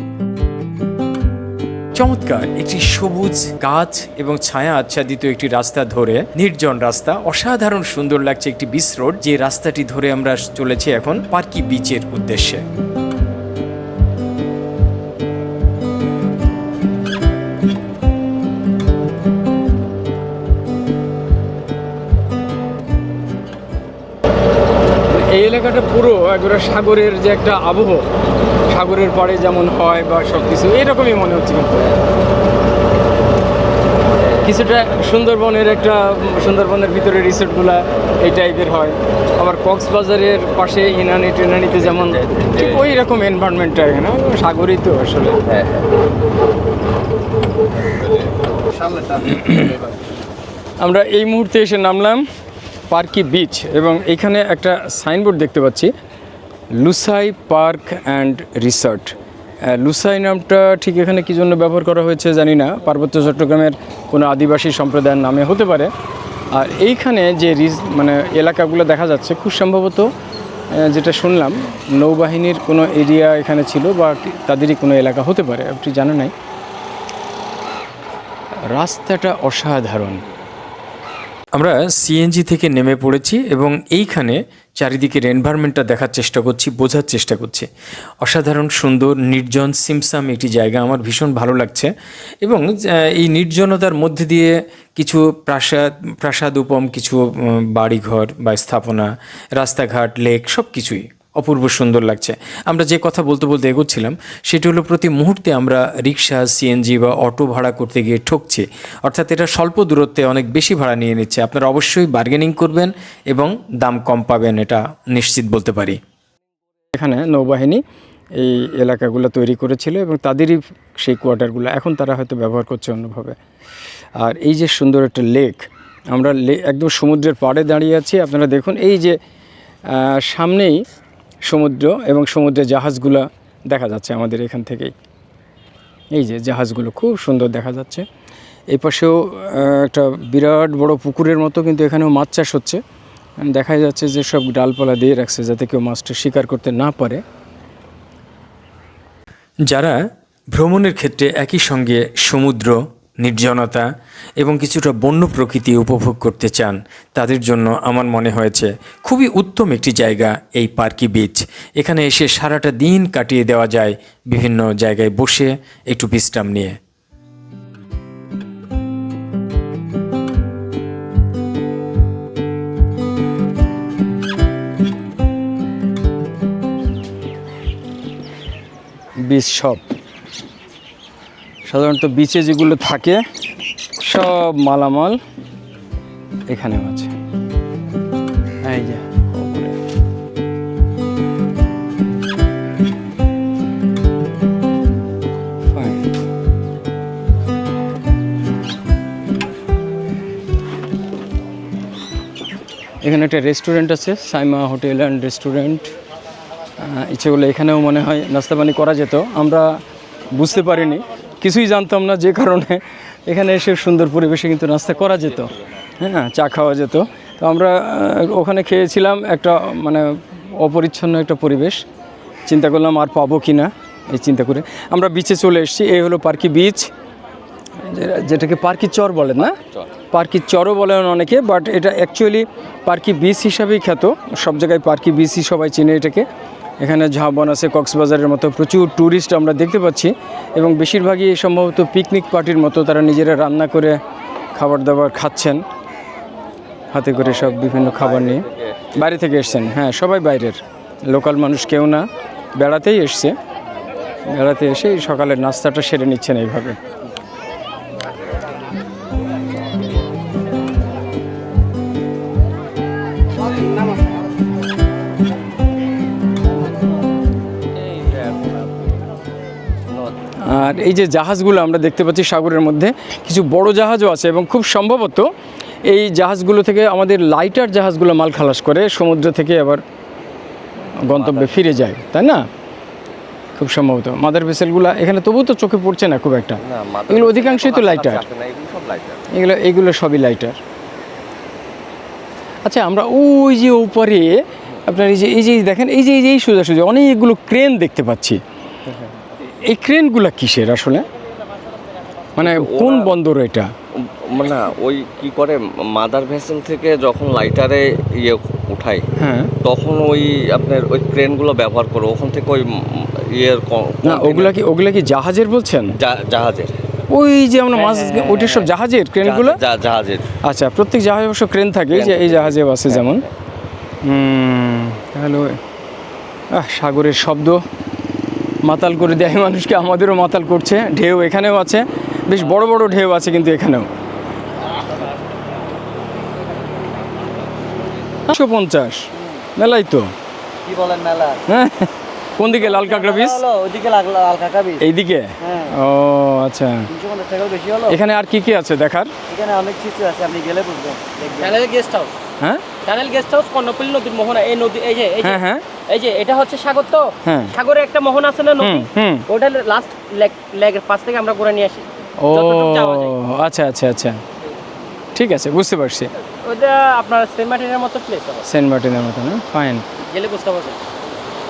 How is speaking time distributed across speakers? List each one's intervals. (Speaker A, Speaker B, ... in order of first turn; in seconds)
Speaker A: 1.9-12.6, 81.5-87.7, 88.2-91.9, 92.4-116.0, 149.7-150.0, 150.5-153.9, 154.4-166.8
Speaker B: 25.1-28.1, 28.7-31.9, 34.4-45.4, 49.1-49.8, 50.8-52.2, 52.9-55.9, 56.8-59.1, 59.7-65.9, 66.5-70.1, 70.7-76.3, 78.7-80.2, 116.9-117.8, 118.4-123.4, 124.2-129.2, 129.9-130.8, 131.4-134.9, 136.1-138.0, 138.7-142.8, 143.4-147.2, 179.2-179.8, 181.7-183.2, 184.0-185.2, 186.5-187.1, 188.6-189.8, 195.7-196.1, 203.0-205.9, 206.8-209.8, 210.3-221.8, 222.4-226.9, 227.8-229.6, 230.1-236.2, 236.8-244.0, 244.5-245.6, 246.9-253.3, 254.3-256.8, 270.4-275.3, 275.9-279.8, 281.1-282.4, 283.6-288.2, 289.3-290.6, 292.6-298.4, 299.6-301.1, 302.4-303.7, 309.1-309.5, 314.0-315.9, 317.1-319.6, 320.4-323.2, 324.0-325.6, 326.5-327.6, 328.6-333.9, 338.3-340.1, 341.5-343.4, 344.8-346.9, 347.9-349.1, 355.2-355.6, 357.2-357.5, 358.6-359.2, 362.2-364.2, 365.1-366.1, 368.4-369.9
Speaker C: 41.8-42.9, 45.5-45.7, 47.9-48.3, 247.2-249.0, 267.8-268.6, 281.1-281.6, 286.6-289.2, 302.4-303.1, 303.9-309.1, 309.6-314.5, 316.0-316.7, 317.9-318.5, 319.2-320.3, 321.9-323.1
Speaker D: 340.7-341.2, 343.1-344.7, 347.1-347.8, 349.3-350.9
Speaker E: 347.0-347.3, 351.3-352.1, 352.8-363.1, 366.4-368.4, 370.0-370.8